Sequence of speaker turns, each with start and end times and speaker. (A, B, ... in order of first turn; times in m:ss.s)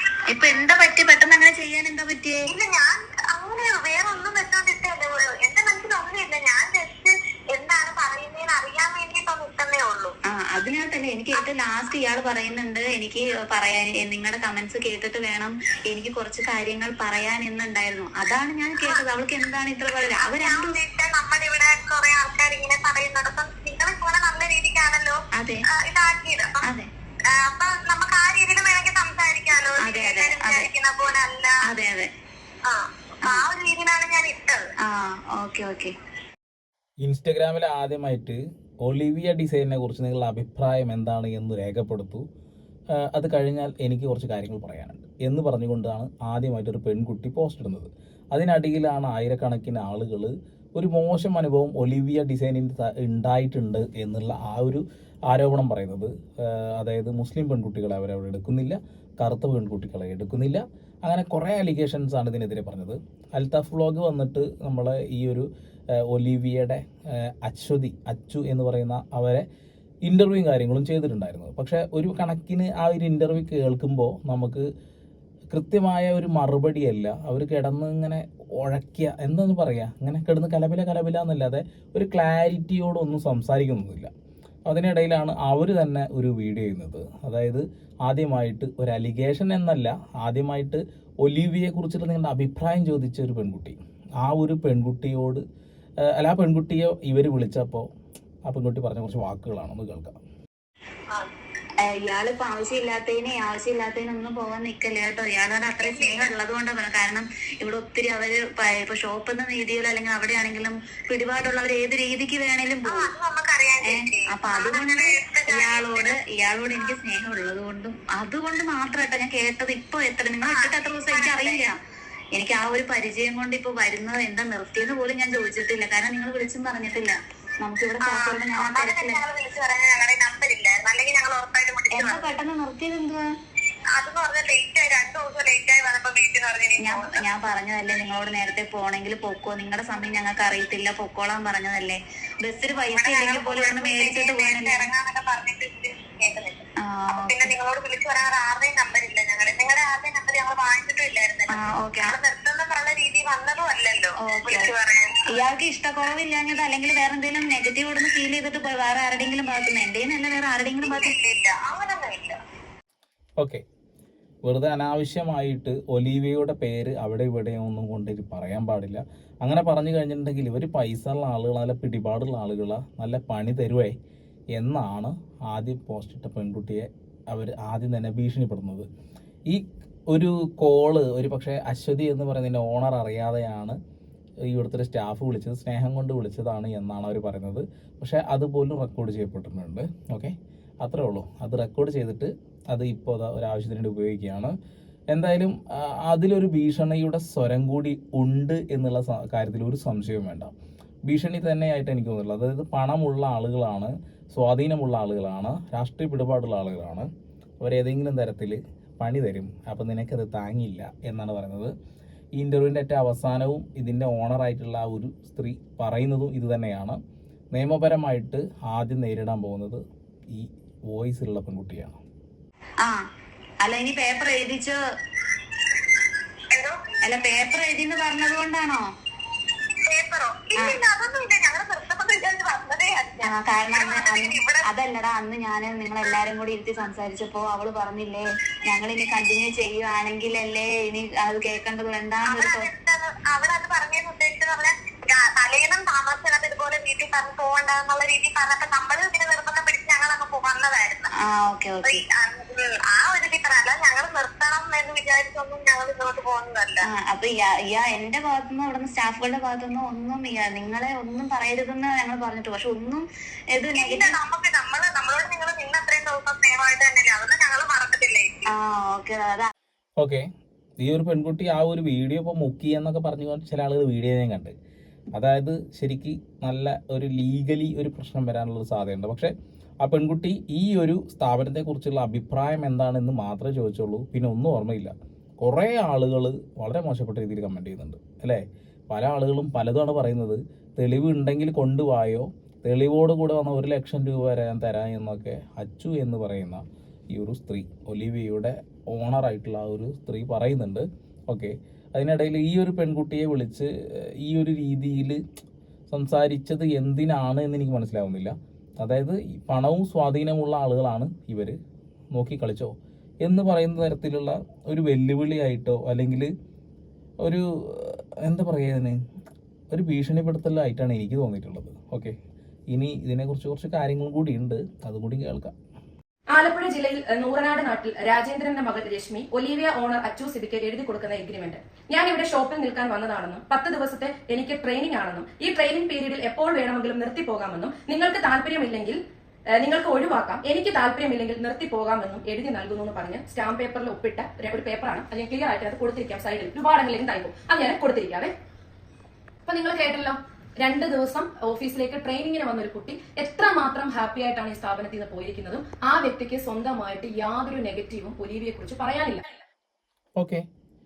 0:00.3-0:02.4 A
0:02.5-0:10.2 B
0:10.3-0:20.8 A
0:20.1-0:25.2 B
0:25.4-0:25.6 A
0:25.8-0:26.6 B
0:26.6-0:26.9 A
0:27.3-0:31.6 B
0:29.8-0:30.7 A
0:31.6-0:32.1 A
0:32.7-0:34.6 B
0:34.8-0:35.9 A
0:37.0-0:42.2 C
0:42.9-1:09.5 C
1:10.0-1:14.6 C
1:15.5-1:24.1 C
1:24.7-1:35.4 C
1:36.0-1:37.9 C
1:38.4-1:40.2 C
1:41.8-1:53.1 A
1:45.8-1:46.3 B
1:52.9-1:56.2 B
1:53.8-2:01.8 A
2:00.4-2:01.6 B
2:02.4-2:09.2 A
2:08.0-2:12.4 B
2:11.9-2:13.2 A
2:13.9-2:17.2 B
2:16.8-2:24.9 A
2:22.7-2:35.2 B
2:26.8-2:27.5 A
2:31.6-2:32.1 A
2:34.2-2:34.7 A
2:35.3-2:41.2 A
2:40.8-2:42.4 B
2:43.4-2:43.6 C
2:44.4-2:54.0 C
2:54.5-2:58.9 C
2:59.5-3:03.8 C
3:04.5-3:14.6 C
3:15.1-3:20.5 C
3:21.1-3:27.1 C
3:27.6-3:31.7 C
3:32.4-3:37.0 C
3:37.5-3:42.0 C
3:43.6-3:44.8 A
3:46.5-3:46.8 B
3:47.0-3:48.9 A
3:49.9-3:54.6 B
3:53.3-4:02.7 A
4:02.3-4:11.1 B
4:11.2-4:12.0 A
4:11.8-4:16.8 B
4:16.9-4:24.2 A
4:23.8-4:28.3 B
4:28.5-4:29.5 A
4:30.0-4:30.3 C
4:30.8-4:34.6 C
4:35.2-5:05.2 C
5:05.9-5:11.6 C
5:12.1-5:16.3 C
5:17.2-5:19.0 C
5:19.7-5:22.2 C
5:22.7-5:25.5 C
5:26.3-5:39.0 D
5:39.6-5:48.3 D
5:49.5-5:59.3 D
6:00.2-6:00.5 C